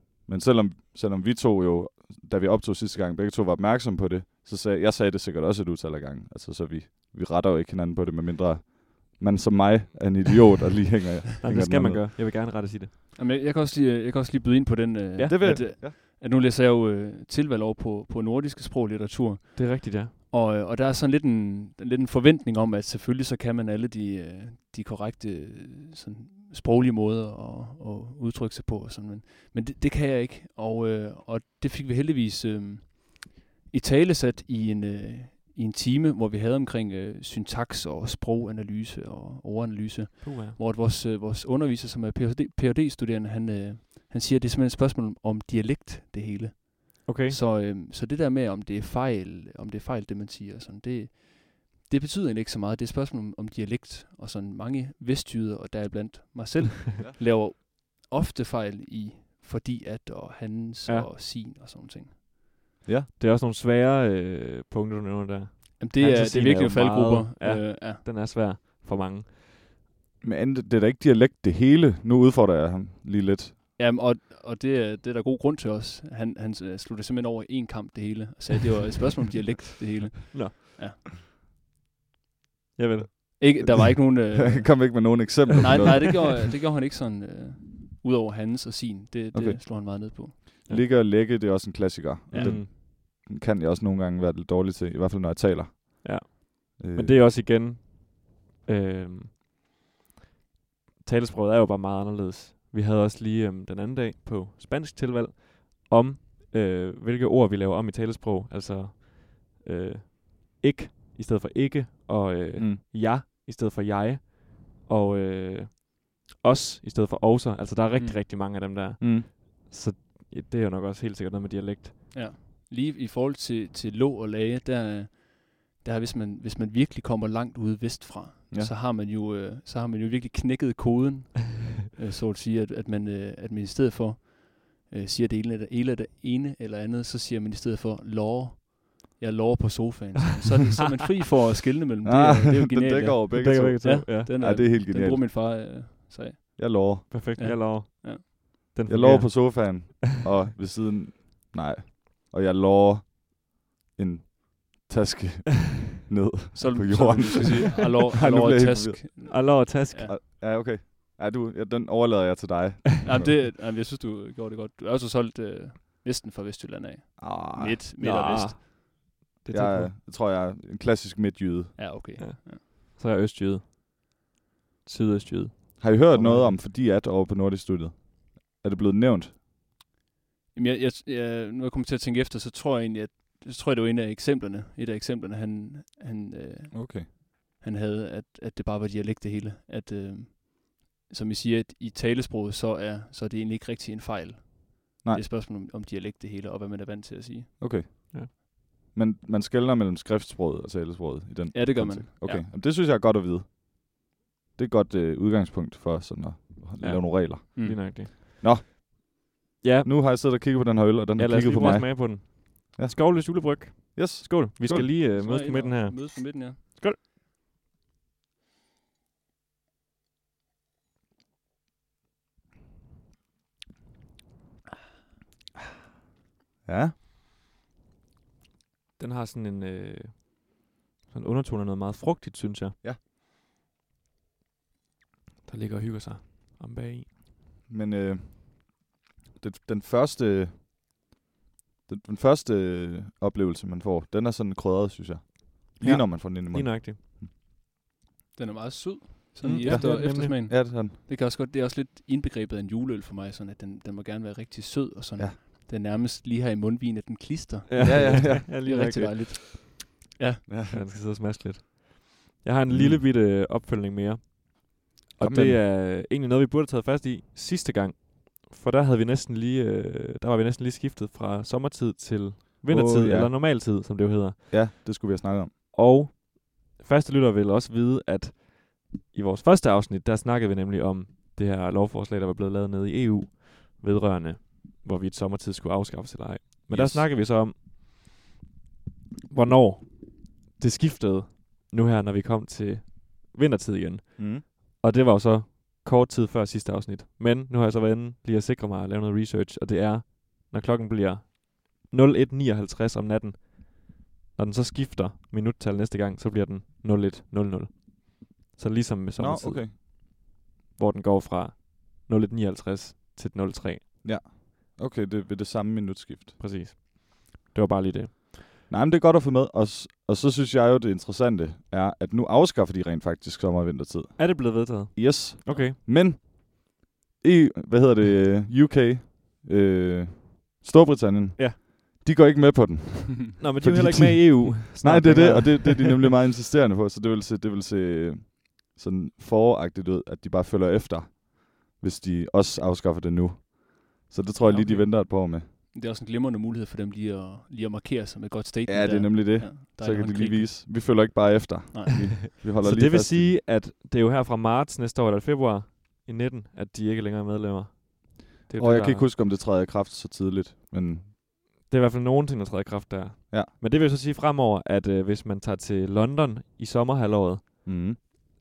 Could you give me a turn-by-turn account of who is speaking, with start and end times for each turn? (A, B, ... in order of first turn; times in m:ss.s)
0:00.2-0:12.0 A
0:11.4-0:12.9 B
0:13.2-1:02.2 C
0:15.2-0:15.6 B
0:15.3-0:15.9 A
0:19.6-0:20.1 B
0:40.2-0:40.6 B
0:47.0-0:47.4 B
1:02.8-1:03.1 A
1:03.2-1:09.3 B
1:05.8-1:08.0 C
1:10.2-1:13.5 A
1:13.8-1:21.0 C
1:22.8-1:23.4 B
1:23.4-1:30.4 C
1:24.3-1:26.4 A
1:29.3-1:29.6 A
1:30.3-1:36.3 A
1:32.3-1:32.6 C
1:32.3-1:32.7 B
1:36.0-1:39.4 B
1:36.8-1:37.2 A
1:41.0-2:02.1 B
1:52.6-1:52.8 A
1:59.0-1:59.3 A
2:02.1-2:28.2 C
2:22.0-2:25.2 A
2:23.3-2:24.3 B
2:26.6-2:27.4 A
2:27.1-2:29.9 B
2:28.8-2:43.4 A
2:36.5-2:40.1 C
2:39.3-2:40.1 B
2:43.0-2:48.7 C
2:47.2-2:47.8 A
2:48.0-2:49.9 B
2:49.5-2:51.8 A
2:51.8-2:52.6 C
2:52.2-2:53.6 B
2:54.8-2:55.8 B
2:55.8-2:59.3 A
2:56.1-2:56.6 C
3:00.5-3:17.6 C
3:06.7-3:07.1 A
3:17.6-3:29.3 A
3:21.5-3:22.4 C
3:26.8-3:28.1 B
3:27.5-3:27.8 C
3:29.6-3:30.5 B
3:29.8-3:34.9 A
3:31.2-3:37.0 B
3:34.7-3:36.6 C
3:46.6-3:46.9 A
3:49.0-3:52.7 B
3:55.4-3:57.1 B
3:57.7-3:58.9 A
3:59.4-4:00.6 A
4:01.9-4:07.3 A
4:05.8-4:07.0 B
4:08.3-4:20.4 C
4:09.4-4:10.4 B
4:09.6-4:11.0 A
4:17.7-4:19.4 B
4:17.8-4:18.5 A
4:20.5-4:20.8 A
4:20.7-4:34.5 B
4:22.7-4:23.0 A
4:25.2-4:25.6 A
4:32.7-4:33.3 A
4:34.5-4:35.5 A
4:35.7-4:47.6 B
4:46.7-4:47.1 A
4:49.3-5:10.2 B
4:54.2-4:54.4 A
5:09.2-5:09.7 A
5:10.8-5:13.8 B
5:14.0-5:16.4 A
5:16.4-5:18.2 B
5:18.7-5:45.5 A
5:24.2-5:25.8 B
5:33.4-5:36.1 B
5:44.4-5:50.5 C
5:48.6-5:53.3 A
5:51.7-5:52.1 C
5:52.4-5:59.1 B
5:58.6-6:01.1 A
6:01.6-6:07.4 B
6:07.6-6:08.0 A